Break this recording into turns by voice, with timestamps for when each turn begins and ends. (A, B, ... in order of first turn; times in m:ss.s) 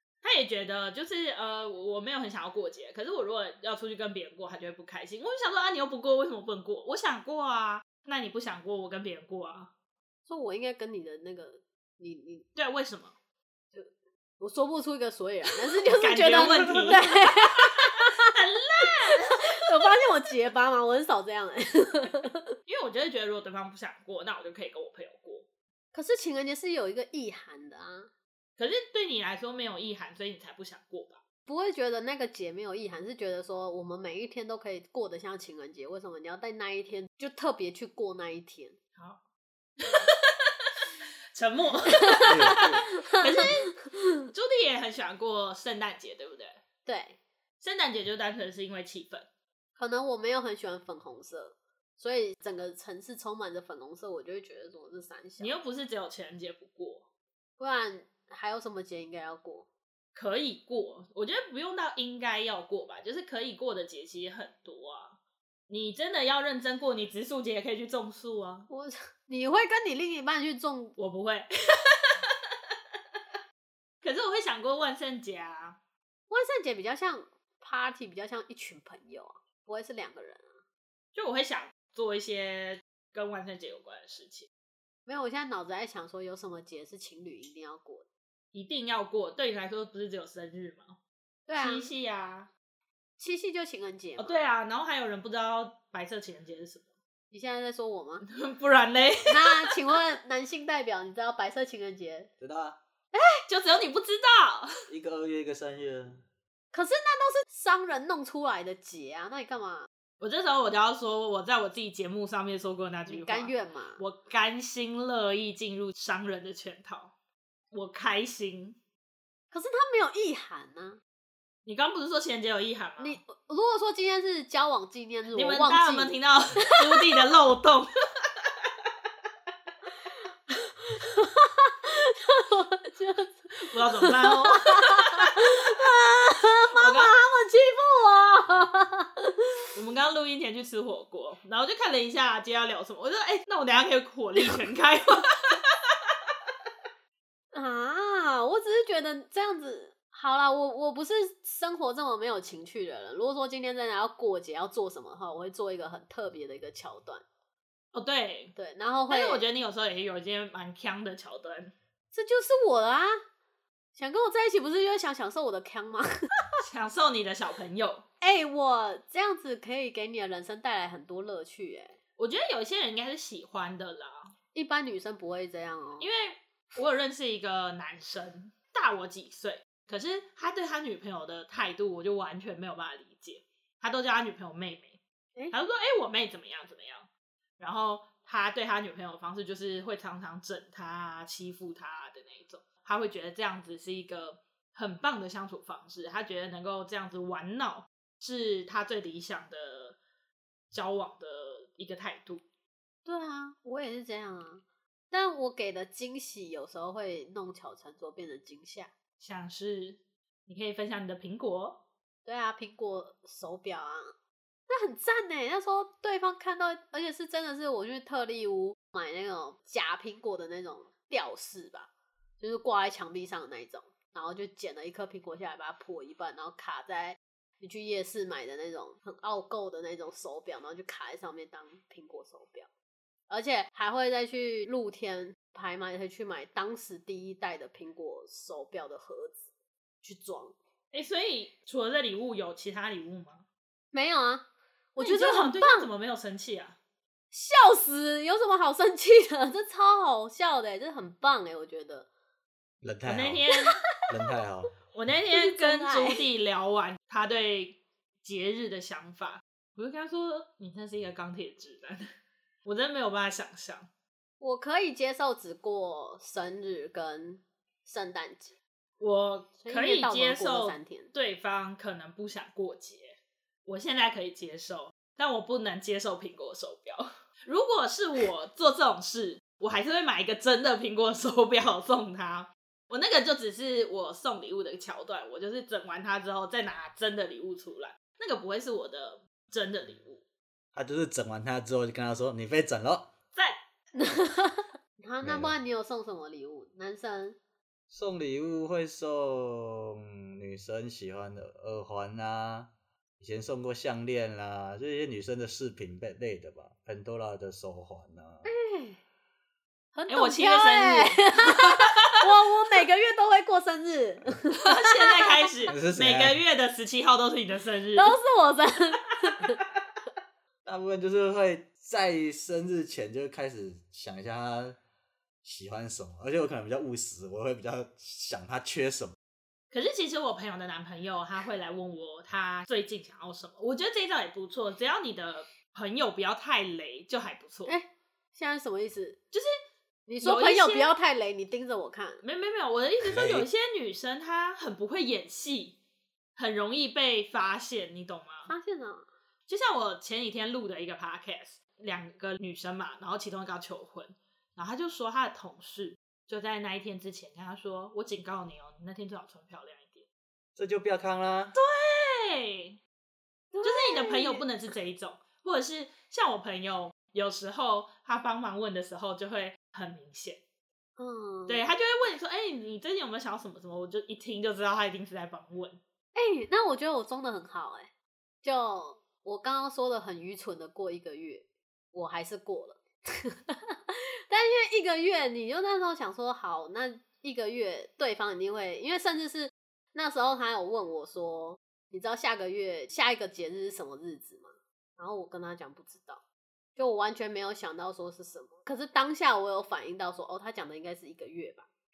0:00.2-0:09.7 A
0:10.2-0:12.4 B
0:12.6-0:13.1 A
0:13.7-0:22.5 B
0:15.7-0:19.5 A
0:22.6-0:25.4 A
0:25.9-0:28.1 B
0:28.6-0:31.2 A
0:31.5-0:38.8 B
0:39.8-0:40.7 A
0:41.3-0:43.8 A
0:42.0-0:44.3 B
0:42.2-0:42.8 C
0:44.3-0:46.6 A
0:46.8-0:47.2 B
0:47.6-0:49.3 A
0:49.8-0:55.5 B
0:55.4-0:57.0 A
0:57.6-0:59.7 B
1:00.1-1:05.2 A
1:05.7-1:08.7 A
1:08.7-1:11.0 B
1:11.0-1:12.4 A
1:14.0-1:15.8 A
1:16.3-1:20.5 B
1:21.1-1:24.5 A
1:25.1-1:28.0 B
1:28.5-1:31.0 A
1:31.5-1:31.9 B
1:31.6-1:32.5 A
1:33.2-1:34.4 B
1:34.2-1:36.8 A
1:37.3-1:38.2 B
1:38.2-1:39.8 A
1:39.3-1:42.3 B
1:42.4-1:42.8 C
1:43.1-1:43.4 B
1:43.5-1:44.8 A
1:44.9-1:46.2 C
1:46.7-1:49.9 B
1:50.2-1:57.1 A
1:53.1-1:54.0 B
1:57.7-1:58.8 A
1:59.5-2:01.0 B
2:01.6-2:03.2 A
2:03.0-2:07.2 B
2:05.3-2:07.9 A
2:10.5-2:19.4 B
2:13.7-2:15.4 A
2:16.8-2:17.1 A
2:19.7-2:25.7 A
2:27.5-2:37.2 B
2:37.9-2:38.5 A
2:38.5-2:39.4 B
2:39.1-2:41.7 A
2:42.1-2:43.2 B
2:43.9-2:46.5 B
2:46.6-2:48.0 A
2:48.2-2:52.0 B
2:52.2-2:54.3 A
2:54.5-2:56.1 B
2:56.0-3:05.0 A
3:05.5-3:07.1 A
3:07.6-3:20.0 A
3:20.7-3:22.4 A
3:23.0-3:28.9 B
3:29.2-3:31.8 A
3:32.2-3:34.1 B
3:34.7-3:41.9 B
3:42.4-3:52.7 B
3:53.3-3:59.4 B
4:00.0-4:00.5 B
4:00.9-4:03.4 A
4:03.9-4:05.9 B
4:05.0-4:06.8 A
4:07.3-4:12.1 B
4:12.8-4:13.5 C
4:13.0-4:13.8 A
4:13.5-4:14.0 B
4:14.1-4:14.7 C
4:14.9-4:22.1 A
4:15.3-4:16.2 B
4:22.6-4:23.9 A
4:24.4-4:28.5 B
4:29.0-4:50.2 A
4:29.6-4:31.1 B
4:50.7-4:53.1 C
4:54.0-4:57.4 B
4:55.2-4:55.5 C
4:57.9-5:08.4 C
5:08.4-5:09.0 B
5:09.9-5:15.4 B
5:10.1-5:11.9 A
5:14.6-5:18.1 A
5:15.7-5:16.4 C
5:18.0-5:19.6 B
5:20.6-5:24.8 C
5:25.4-5:29.2 C
5:29.7-5:37.7 A
5:37.6-5:39.2 B
5:40.1-5:42.2 B
5:40.2-5:40.9 A
5:42.2-5:45.8 A
5:43.0-5:43.5 C
5:46.4-5:48.5 A
5:48.5-5:49.1 B
5:49.5-6:00.0 A
6:00.6-6:01.5 C
6:01.5-6:02.8 A
6:03.5-6:04.4 B
6:03.6-6:10.4 A
6:11.0-6:11.6 B
6:11.5-6:15.8 A
6:16.1-6:17.9 B
6:18.4-6:36.2 B
6:36.8-6:41.7 B